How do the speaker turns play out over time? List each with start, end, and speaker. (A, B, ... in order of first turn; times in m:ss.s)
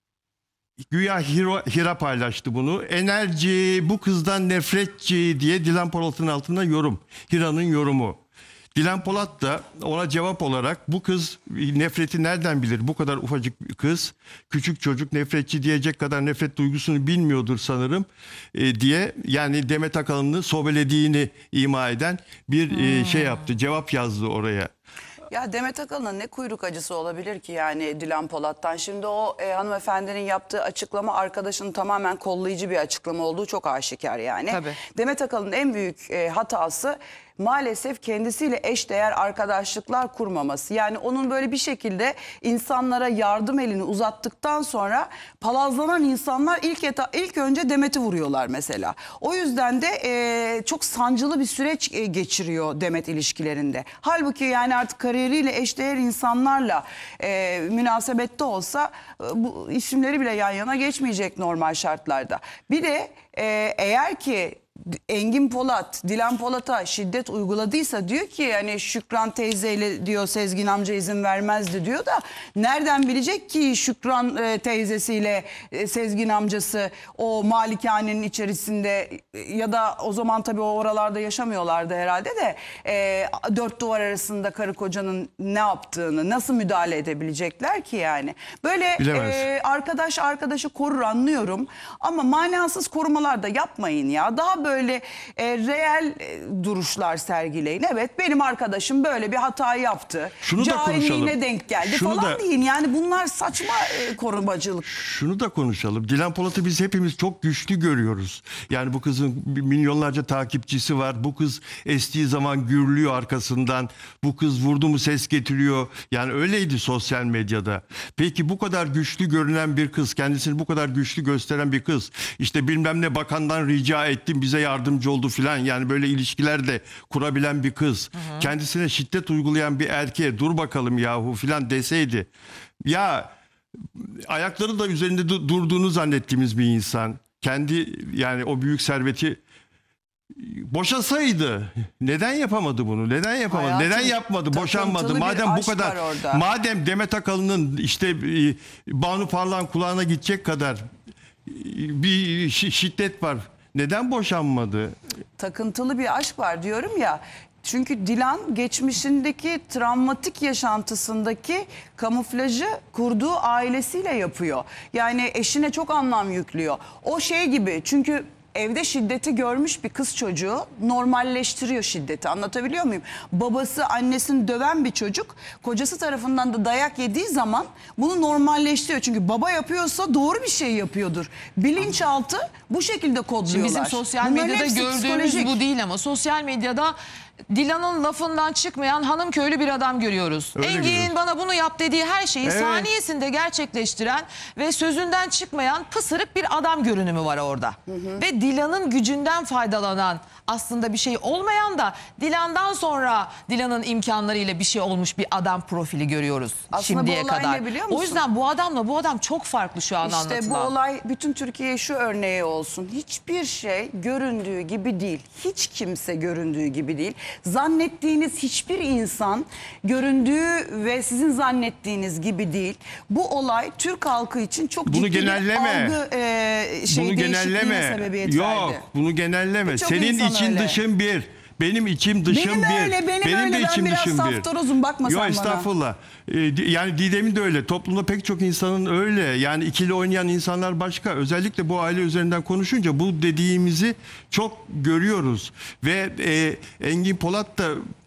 0:00.8-0:08.2 A
0:08.8-0:24.7 A
0:22.7-0:23.4 B
0:25.3-1:44.9 C
0:34.5-0:34.8 B
1:29.0-1:29.5 A
1:40.4-1:42.4 A
1:44.8-2:12.3 A
2:08.2-2:08.5 B
2:12.8-2:13.3 A
2:14.0-2:19.4 A
2:20.4-2:30.8 A
2:23.5-2:26.4 C
2:31.5-2:35.0 A
2:35.4-3:05.6 C
3:03.5-3:07.0 B
3:07.5-3:30.7 B
3:10.6-3:11.1 A
3:12.4-3:12.9 A
3:17.9-3:18.2 C
3:26.7-3:28.2 C
3:30.0-3:48.8 C
3:44.9-3:46.0 A
3:46.9-3:54.5 A
3:49.7-3:50.8 C
3:52.3-3:55.7 C
3:55.0-4:07.8 A